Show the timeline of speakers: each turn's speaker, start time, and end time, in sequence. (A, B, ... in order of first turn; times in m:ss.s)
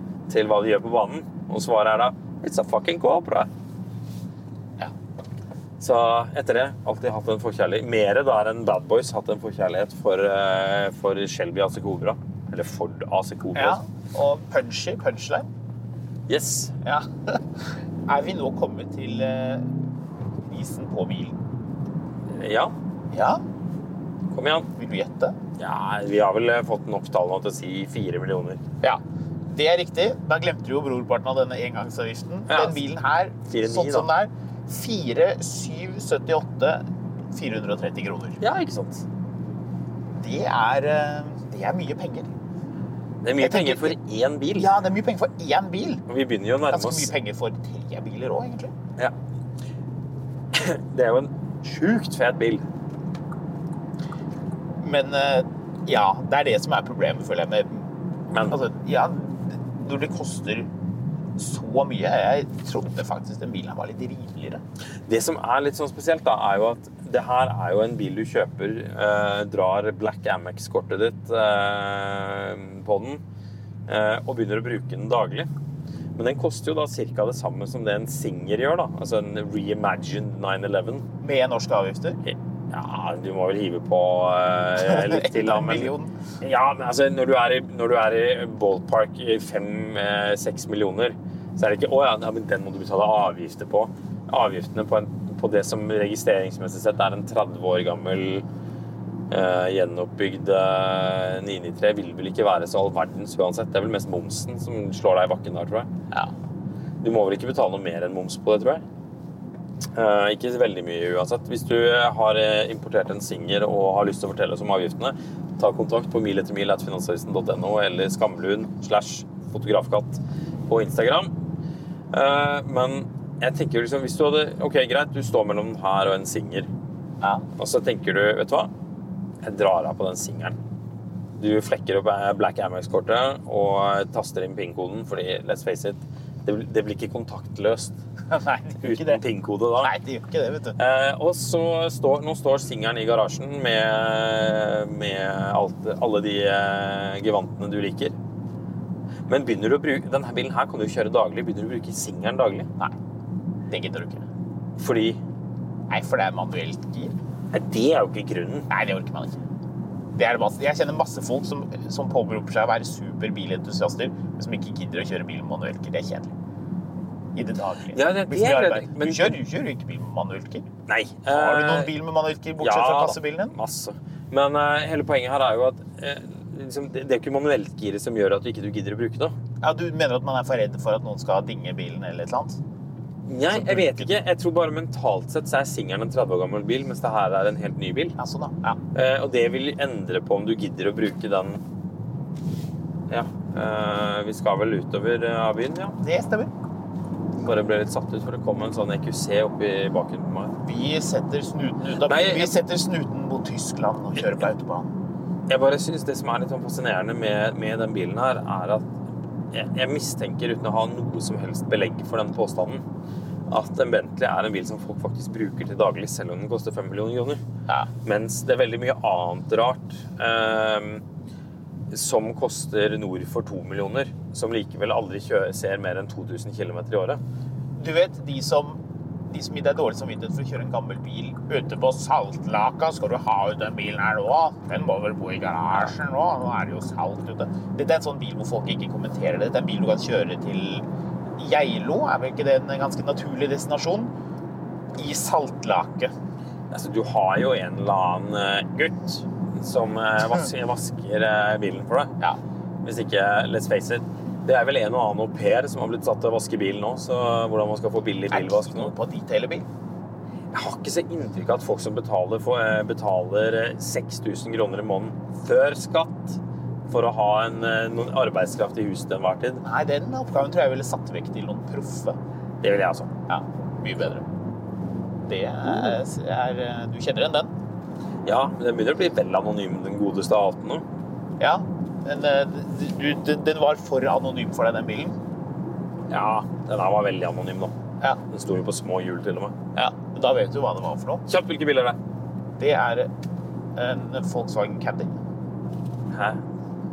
0:00.3-0:03.5 A
0:05.8-0:13.8 A
0:13.5-0:15.5 B
0:16.3-0:16.7 A
0:16.8-0:17.4 B
0:18.1-0:19.7 B
0:20.5-0:21.4 B
0:22.3-0:22.7 A
0:23.1-0:23.4 B
0:24.3-0:24.7 A
0:24.8-0:25.4 B
0:25.6-0:28.6 A
0:28.8-0:38.4 B
0:32.5-0:32.8 A
0:33.5-0:34.1 A
0:38.4-0:39.0 A
0:40.2-0:42.3 B
0:43.2-0:44.8 A
0:43.4-0:44.0 B
0:44.6-0:46.0 B
0:46.1-0:47.1 A
0:46.7-0:48.7 B
0:50.5-0:52.6 A
0:54.8-0:57.8 B
0:58.3-0:58.6 A
0:58.5-1:00.7 B
1:01.4-1:04.6 B
1:05.1-1:13.2 A
1:13.9-1:15.5 A
1:16.2-1:21.0 A
1:21.2-1:22.2 B
1:22.2-1:38.4 A
1:24.8-1:26.1 B
1:39.3-1:45.9 A
1:47.0-1:48.8 A
1:49.9-2:01.3 A
2:02.1-2:06.7 A
2:07.6-2:08.7 A
2:09.4-2:10.6 A
2:11.4-2:18.0 A
2:18.3-2:19.2 B
2:18.8-2:19.9 A
2:19.8-2:20.8 B
2:20.8-2:28.1 A
2:29.3-2:32.7 A
2:33.7-2:34.2 B
2:34.8-2:35.2 A
2:35.9-2:37.1 B
2:37.5-2:38.7 A
2:38.7-2:39.4 B
2:40.2-2:46.3 B
2:47.4-2:50.7 B
2:47.9-2:49.4 A
2:50.9-2:51.9 A
2:51.3-2:53.5 B
2:52.6-2:59.3 A
2:59.6-3:02.6 B
3:03.3-3:08.1 A
3:03.5-3:04.1 B
3:08.2-3:08.8 B
3:08.9-3:11.6 A
3:13.1-3:16.0 A
3:16.0-3:16.5 B
3:17.4-3:20.5 A
3:20.6-3:24.9 B
3:22.0-3:22.5 A
3:24.2-3:24.5 A
3:25.5-3:28.9 A
3:29.5-3:32.8 A
3:33.5-3:37.4 A
3:38.0-3:41.0 A
3:41.9-3:47.2 A
3:47.8-4:00.8 B
4:01.4-4:04.1 B
4:05.0-4:06.1 B
4:06.7-4:12.1 A
4:12.8-4:18.9 A
4:18.3-4:19.6 B
4:20.5-4:29.6 A
4:29.6-4:32.2 B
4:32.6-4:33.1 A
4:33.3-4:34.2 B
4:35.3-4:37.5 B
4:38.2-4:40.8 A
4:41.4-4:45.2 B
4:46.1-4:47.7 A
4:48.3-4:49.5 A
4:49.8-4:51.2 B
4:51.3-4:52.0 A
4:52.6-4:53.1 B
4:53.8-4:55.1 B
4:56.1-4:56.4 A